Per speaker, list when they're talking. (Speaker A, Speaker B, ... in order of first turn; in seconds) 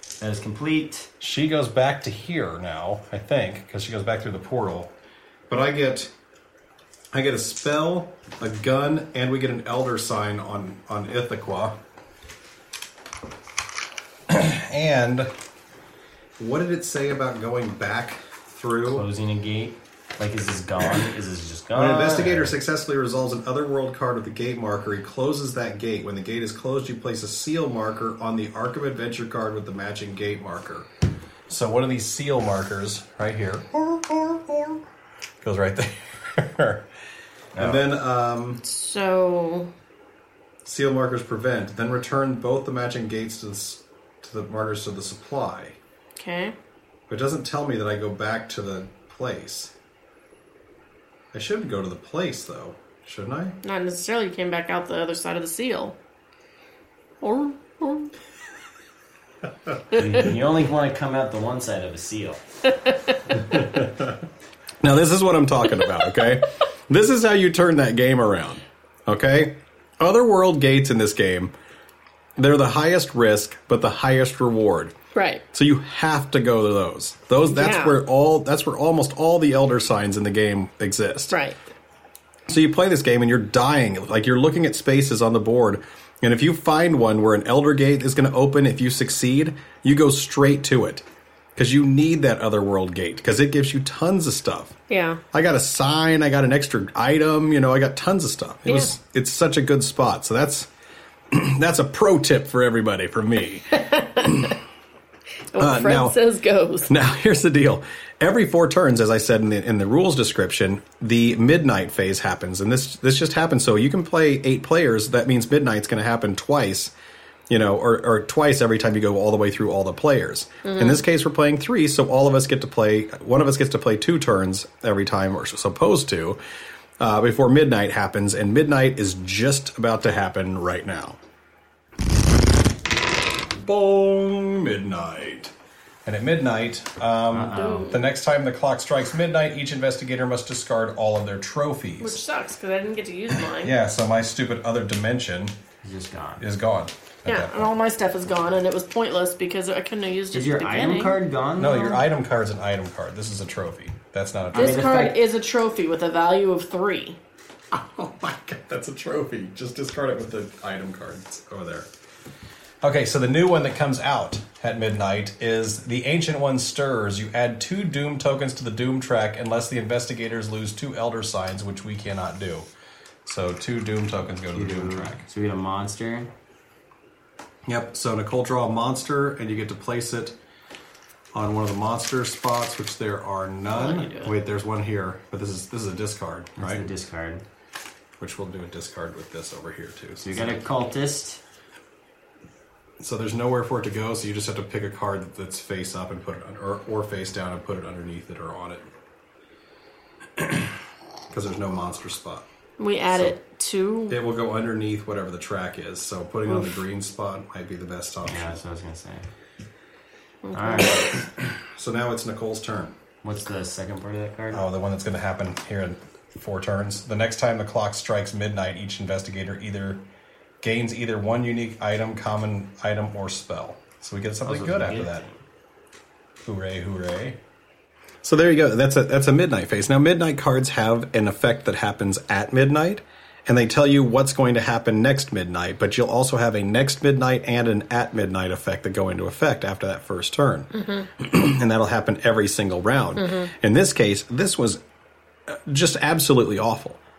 Speaker A: 0.2-1.1, 18.8-22.6, 37.5-37.8, 59.9-62.4, 137.3-138.0, 145.8-146.4, 150.3-152.0, 154.5-155.2, 174.5-176.3, 186.6-187.4, 190.2-191.4, 208.2-209.3, 210.5-211.1, 213.2-214.6, 224.4-225.4
Speaker B: 1.2-4.9, 5.5-6.1, 7.1-11.8, 14.3-15.3, 16.4-19.1, 21.7-30.9, 31.5-34.8, 35.4-36.9, 37.5-38.6, 40.6-45.8, 47.1-49.7, 51.3-53.6, 63.5-64.1, 64.8-71.5, 72.4-74.9, 75.5-81.3, 82.5-91.0, 91.5-94.8, 95.3-100.7, 101.3-104.5, 105.5-106.2, 106.9-116.9, 117.5-126.4, 127.0-131.2, 133.6-135.5, 136.0-142.2, 143.5-145.6, 146.4-147.7, 151.6-155.0, 157.7-161.9, 162.8-172.7, 173.2-175.2, 177.7-180.4, 181.3-186.9, 188.2-190.6, 193.0-198.9, 200.4-200.7, 201.3-202.4, 204.1-208.6, 211.4-213.0, 214.5-220.0, 220.6-225.2, 226.4-227.4, 228.2-244.8, 245.5-247.0
Speaker C: 38.6-39.7, 46.1-46.5, 53.6-56.0, 57.2-58.1, 75.1-75.4, 77.5-78.0, 81.3-81.6, 94.9-95.2, 98.7-98.9, 103.8-104.5, 105.5-106.9, 120.6-121.0, 137.5-137.9, 142.0-143.7, 147.2-151.2, 154.5-157.2, 183.7-184.3, 202.8-204.2, 206.4-206.8, 210.4-211.1, 240.7-241.1, 243.2-243.5